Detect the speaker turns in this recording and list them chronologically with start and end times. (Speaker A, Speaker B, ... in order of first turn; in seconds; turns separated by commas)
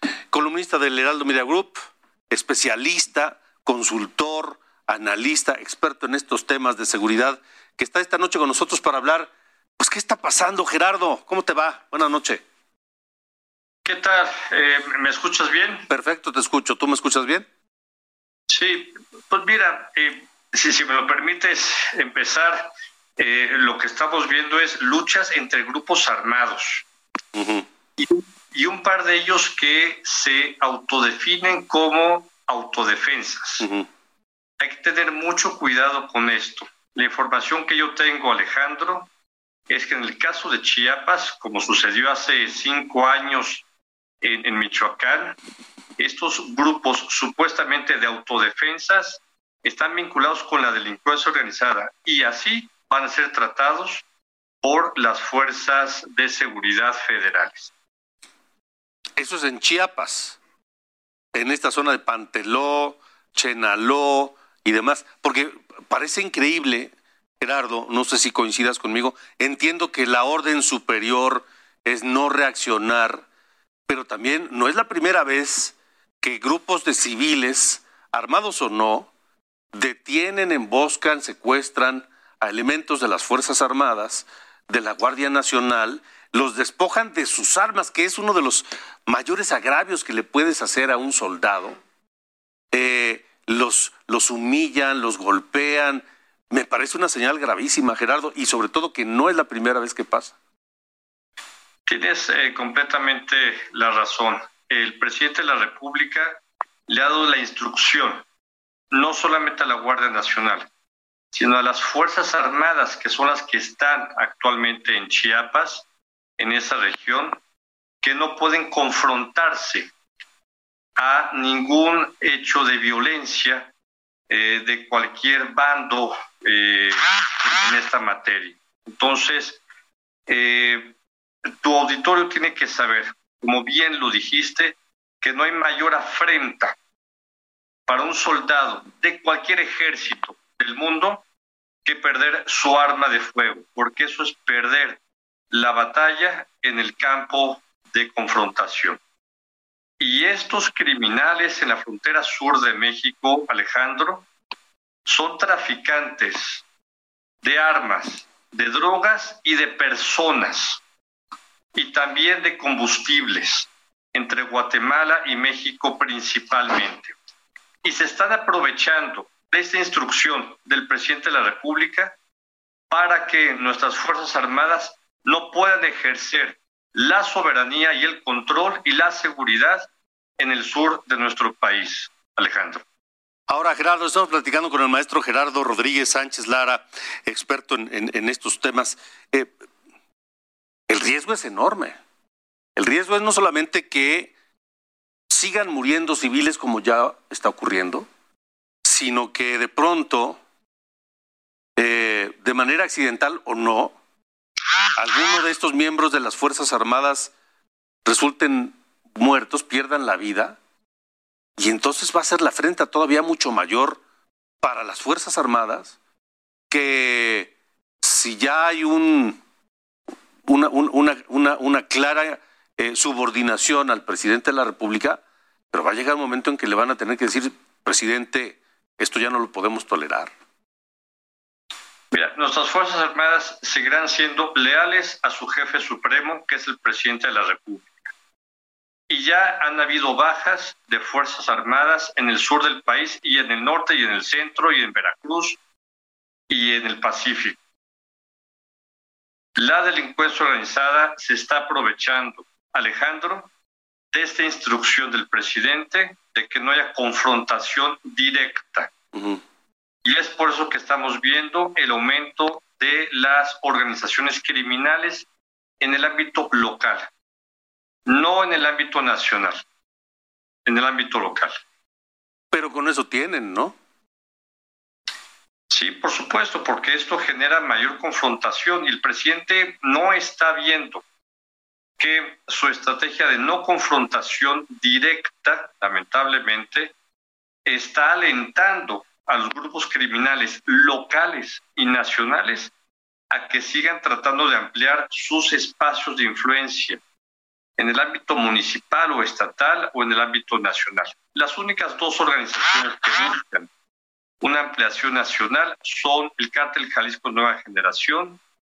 Speaker A: 0.3-12.4, Speaker B: 13.8-15.9, Speaker A: 15.9-17.5, Speaker B: 18.5-26.8, Speaker A: 27.3-27.6, Speaker B: 28.0-33.6, Speaker A: 33.6-33.9, Speaker B: 34.6-39.1, Speaker B: 39.7-43.6, Speaker B: 44.2-45.4, Speaker B: 46.0-54.0, Speaker B: 54.6-57.7, Speaker A: 59.2-60.4, Speaker A: 61.3-73.2, Speaker A: 73.9-79.1, Speaker A: 79.7-91.8, Speaker A: 92.7-100.3, Speaker B: 101.8-108.2, Speaker B: 108.9-110.7, Speaker B: 111.3-115.8, Speaker B: 116.4-117.4, Speaker B: 118.0-119.9, Speaker B: 121.0-123.7, Speaker B: 124.3-129.6, Speaker B: 130.3-130.9, Speaker B: 131.6-136.7, Speaker B: 137.9-141.2, Speaker B: 141.8-145.0, Speaker B: 145.5-149.0, Speaker B: 150.0-154.2, Speaker B: 155.1-156.6, Speaker B: 157.4-160.8, Speaker B: 161.7-167.1, Speaker B: 167.8-172.1, Speaker B: 172.9-182.8, Speaker A: 183.5-189.5, Speaker A: 190.9-192.0, Speaker A: 192.8-194.3, Speaker A: 195.3-198.1, Speaker A: 198.8-200.4, Speaker A: 201.8-203.9, Speaker A: 205.0-207.3, Speaker A: 208.1-210.6, Speaker A: 211.6-214.0, Speaker A: 214.6-215.9, Speaker A: 216.7-219.4, Speaker A: 220.5-225.2, Speaker A: 225.7-230.3, Speaker B: 232.1-237.8, Speaker B: 239.1-245.6, Speaker B: 246.5-247.6, Speaker B: 249.6-253.5, Speaker B: 254.1-258.9, Speaker A: 259.1-259.4, Speaker B: 260.1-265.2, Speaker B: 265.8-267.1, Speaker B: 268.1-269.6, Speaker B: 270.6-271.6, Speaker A: 272.5-273.7, Speaker B: 275.7-281.0, Speaker B: 282.0-286.9, Speaker B: 287.6-292.7, Speaker B: 293.3-297.0, Speaker B: 297.8-303.7, Speaker B: 304.4-308.4